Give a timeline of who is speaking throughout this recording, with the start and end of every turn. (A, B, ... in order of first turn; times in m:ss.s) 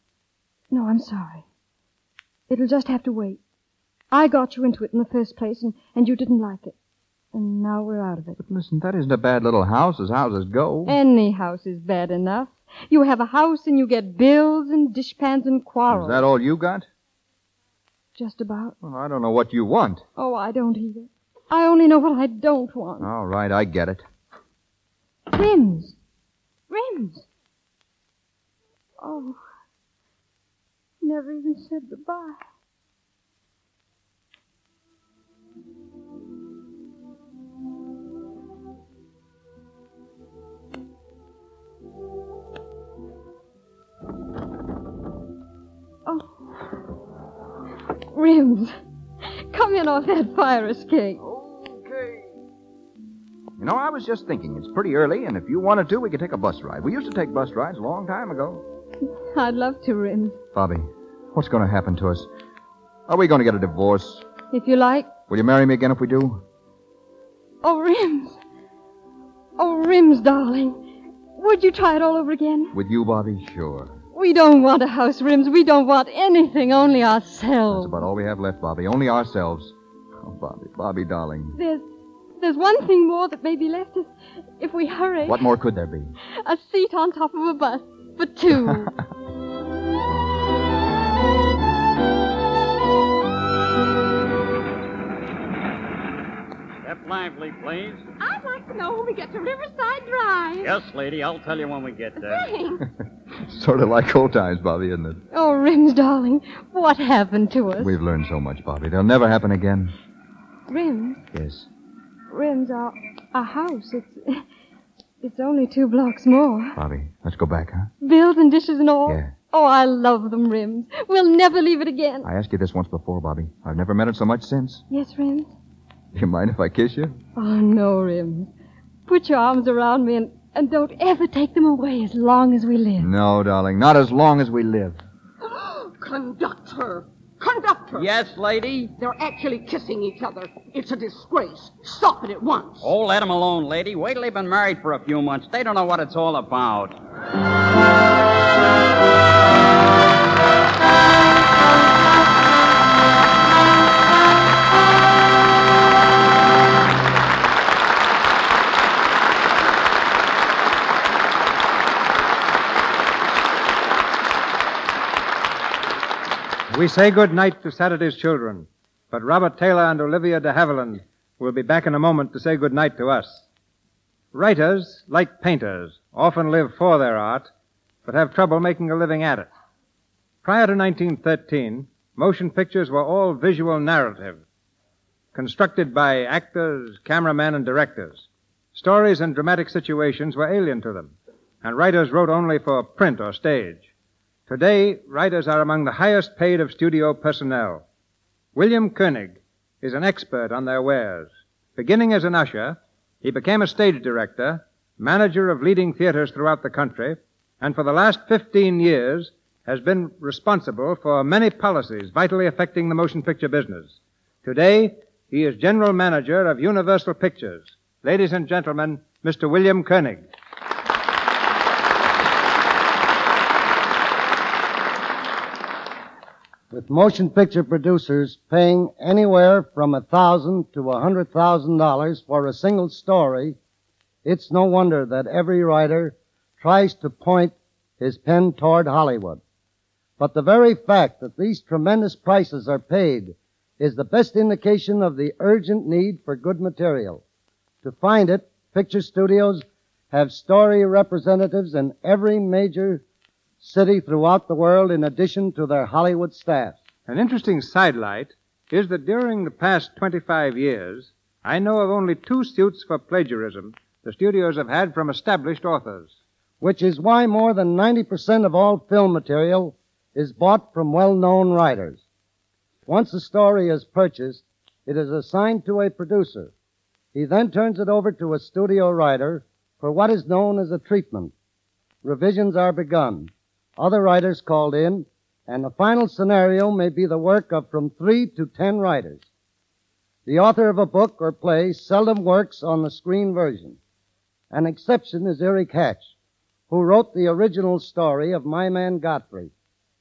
0:00.7-0:01.4 A
0:02.5-0:03.4 A
0:04.1-0:06.7 A
0:07.3-0:08.4 A
0:08.4-0:11.0 B
0:10.8-0:16.2 A
0:15.9-0:16.9 B
0:18.2-0:18.7 A
0:18.8-0:20.0 B
0:20.2-0:23.1 A
0:23.0-0:24.0 B
0:25.3-0:26.0 A
0:26.7-0:27.3 A
0:29.0-0:29.4 A
0:31.0-0:32.4 A
0:46.0-0:46.5 A
0:48.1-0:48.8 A
0:49.5-0:51.2 A
0:51.2-0:52.2 B
0:53.6-0:58.6 B
0:59.2-1:00.4 A
1:00.5-1:02.3 B
1:03.1-1:04.2 B
1:04.5-1:05.1 A
1:05.3-1:06.4 B
1:07.6-1:08.4 A
1:09.6-1:10.8 A
1:11.4-1:12.7 A
1:12.7-1:14.0 B
1:14.1-1:18.0 A
1:17.7-1:21.6 B
1:21.5-1:21.8 A
1:22.4-1:25.5 A
1:25.2-1:26.1 B
1:26.4-1:28.9 A
1:28.5-1:29.0 B
1:36.8-1:38.0 C
1:38.2-1:40.8 D
1:40.6-1:42.4 C
1:42.2-1:42.8 D
1:43.3-1:45.2 B
1:45.3-1:48.0 A
1:47.8-1:49.9 B
1:50.7-1:51.2 A
1:51.3-1:51.7 B
1:52.3-1:54.4 A
1:55.2-1:56.8 A
1:56.8-1:57.9 B
1:58.0-2:02.3 A
1:59.0-1:59.3 B
2:02.2-2:04.8 B
2:04.9-2:05.5 A
2:06.1-2:07.2 B
2:07.4-2:08.5 A
2:09.1-2:13.1 A
2:13.0-2:15.0 B
2:15.5-2:18.1 D
2:17.9-2:18.9 C
2:19.0-2:22.9 D
2:22.8-2:27.0 C
2:46.7-2:53.4 E
2:54.3-2:57.5 E
2:58.0-2:59.5 E
3:00.4-3:04.4 E
3:05.3-3:13.9 E
3:14.5-3:17.8 E
3:18.5-3:40.2 E
3:46.7-3:53.6 F
3:54.2-3:59.4 F
4:00.2-4:07.2 F
4:07.8-4:13.0 F
4:13.6-4:16.8 F
4:17.1-4:26.1 E
4:26.6-4:32.0 F
4:32.8-4:36.5 F
4:37.1-4:41.3 F
4:42.0-4:49.2 F
4:50.2-4:53.8 F
4:54.5-4:56.1 F
4:56.7-4:59.5 F